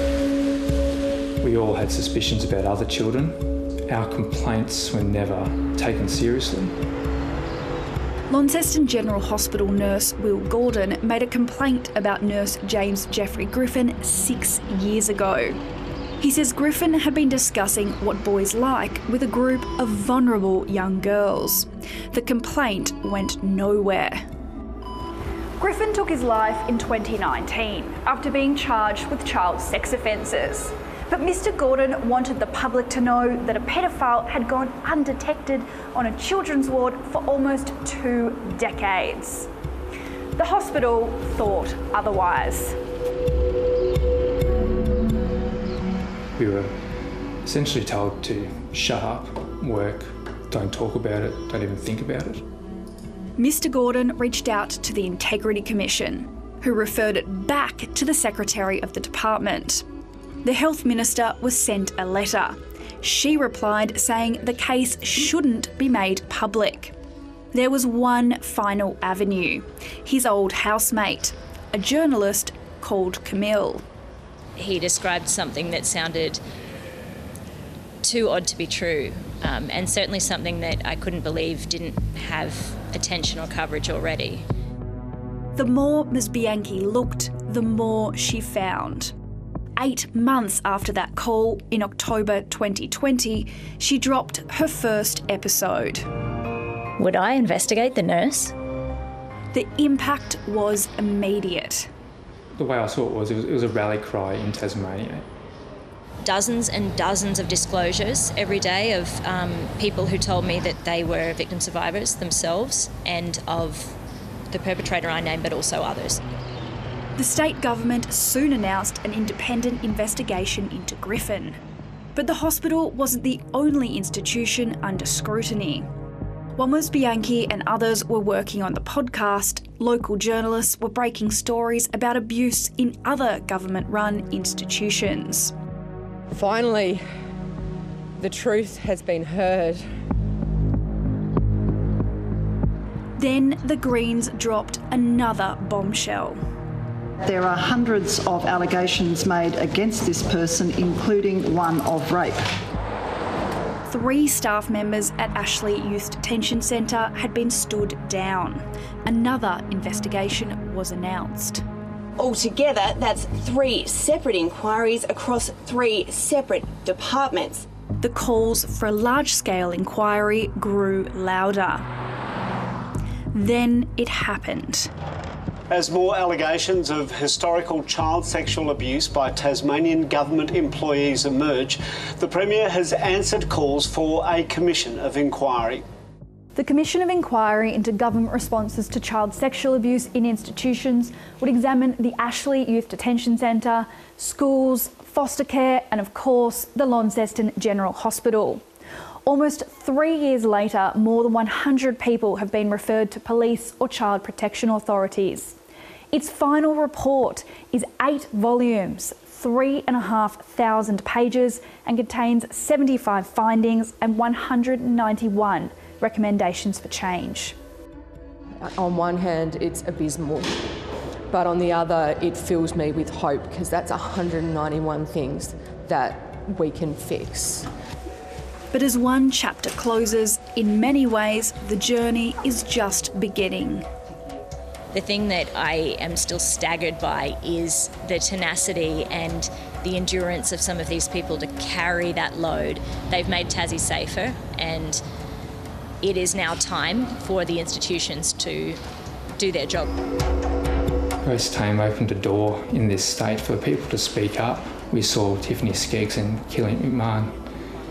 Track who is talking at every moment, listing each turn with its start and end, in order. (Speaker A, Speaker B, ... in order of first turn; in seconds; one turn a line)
Speaker A: 1.4-6.7
Speaker B: 8.3-15.6
Speaker B: 16.2-24.2
Speaker B: 25.6-39.5
Speaker B: 40.4-42.8
Speaker A: 46.4-46.7
Speaker A: 47.4-52.4
Speaker B: 53.4-59.8
Speaker B: 60.4-66.9
Speaker B: 67.5-73.8
Speaker C: 74.6-76.4
Speaker C: 78.0-84.4
Speaker B: 85.5-89.1
Speaker B: 89.8-96.0
Speaker C: 97.0-98.5
Speaker B: 99.5-101.9
Speaker A: 102.6-105.2
Speaker C: 106.2-114.0
Speaker C: 114.5-116.2
Speaker B: 117.2-121.6
Speaker B: 122.1-125.9
Speaker B: 126.5-135.5
Speaker D: 136.3-137.0
Speaker D: 138.2-139.8
Speaker B: 143.2-146.4
Speaker E: 147.2-152.4
Speaker B: 153.9-161.6
Speaker F: 162.2-167.6
Speaker B: 168.0-171.8
Speaker B: 173.3-174.9
Speaker G: 175.7-185.8
Speaker B: 186.5-198.6
Speaker B: 199.2-205.6
Speaker B: 206.1-217.6
Speaker D: 218.6-220.6
Speaker D: 221.3-227.7
Speaker B: 228.7-233.8
Speaker C: 234.9-245.0
Speaker C: 246.0-248.8
Speaker C: 249.4-249.9
Speaker A: 251.2-257.3